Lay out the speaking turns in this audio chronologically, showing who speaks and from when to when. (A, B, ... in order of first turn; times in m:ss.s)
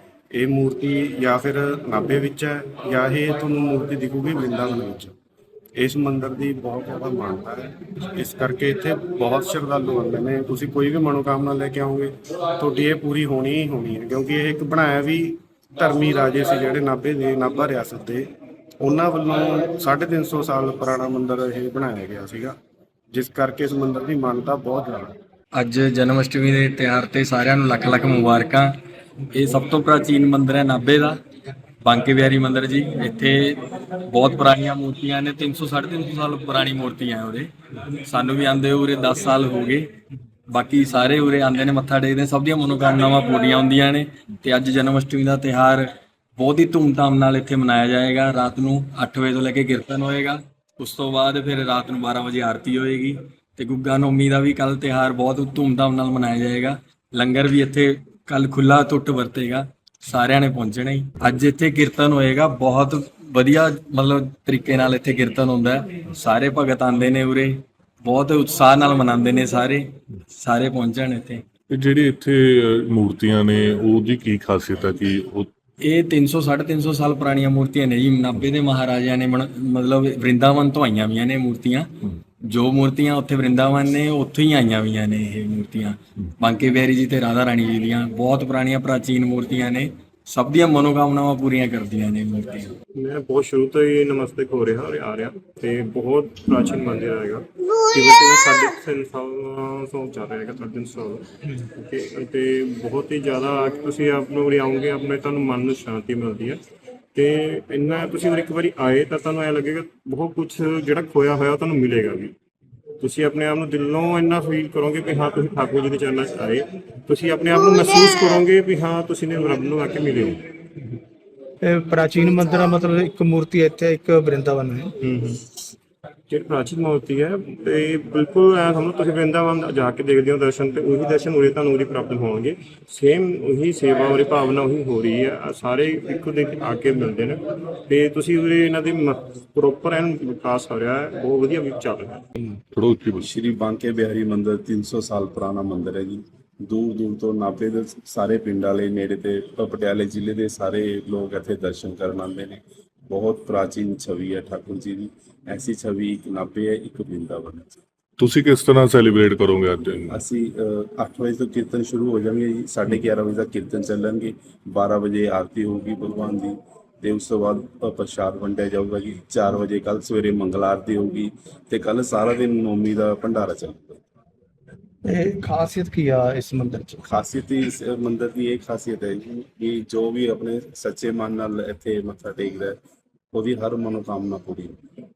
0:00.3-0:05.1 A
0:05.8-0:18.3 A
0:18.8-0:22.6 A
0:23.1-0:25.1 A
0:25.5-0:28.7 B
0:29.3-0:31.2 B
0:31.8-0:39.9 B
0:40.5-1:11.4 B
1:11.7-1:15.5 C
1:15.8-1:21.9 B
1:22.4-1:32.7 B
1:32.9-1:46.6 D
1:47.1-1:52.3 D
1:53.0-2:00.4 D
2:01.6-2:04.9 E
2:05.0-2:05.6 D
2:06.3-2:22.2 D
2:22.7-2:23.2 C
2:23.2-2:37.8 F
2:38.2-2:40.2 C
2:40.1-2:54.0 F
2:55.0-2:57.0 E
2:57.0-3:02.8 F
3:03.3-3:04.8 F